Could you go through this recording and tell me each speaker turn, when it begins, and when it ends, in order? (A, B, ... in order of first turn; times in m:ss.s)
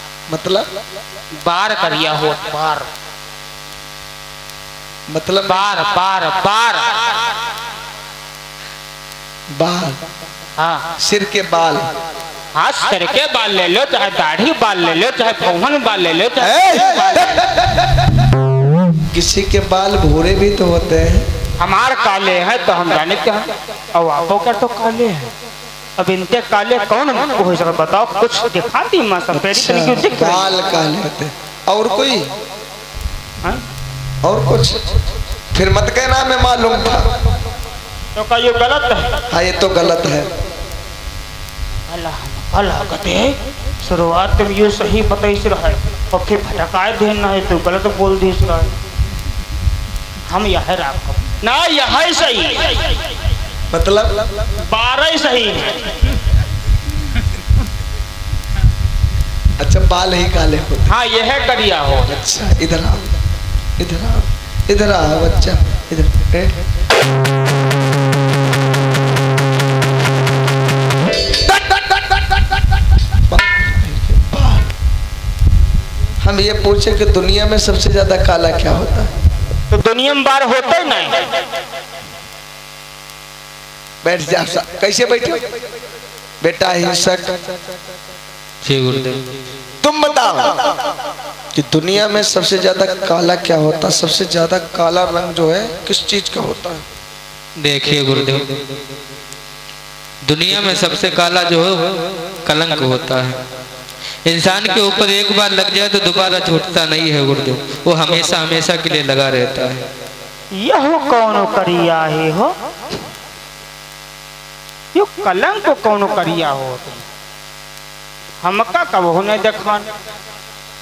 0:00.3-0:00.7 A
0:01.4-0:02.9 B
0:05.1-0:05.8 A
0:05.4-0:07.0 B
0:09.5-0:10.0 A
0:10.6-0:10.9 B
0:11.0-0:11.9 A
0:12.5-0:17.3 B
0:16.4-0:17.9 A
0:19.1-0:21.3 A
0:21.6-0:25.3 B
0:26.0-0:30.5 B
0:29.3-0:32.4 A
0:34.2-0:35.0 A
0:35.5-0:37.2 A
0:38.2-0:39.2 B
0:39.3-0:40.3 A
0:41.9-0:48.7 B
0:50.3-0:52.8 B
0:53.7-0:54.4 A
0:54.6-0:55.9 B
0:59.6-1:00.9 A
1:00.9-1:02.1 B
1:02.1-1:03.1 A
1:03.8-1:06.6 A
1:11.7-1:12.0 B
1:13.3-1:14.7 A
1:16.2-1:19.1 A
1:19.7-1:21.2 B
1:24.0-1:25.5 A
1:26.4-1:27.4 A
1:28.6-1:29.3 C
1:29.8-1:30.7 A
1:31.5-1:36.8 A
1:37.6-1:38.6 C
1:40.2-1:43.4 C
1:44.2-1:49.8 C
1:50.5-1:52.5 B
1:54.9-1:57.0 B
1:58.4-1:59.9 B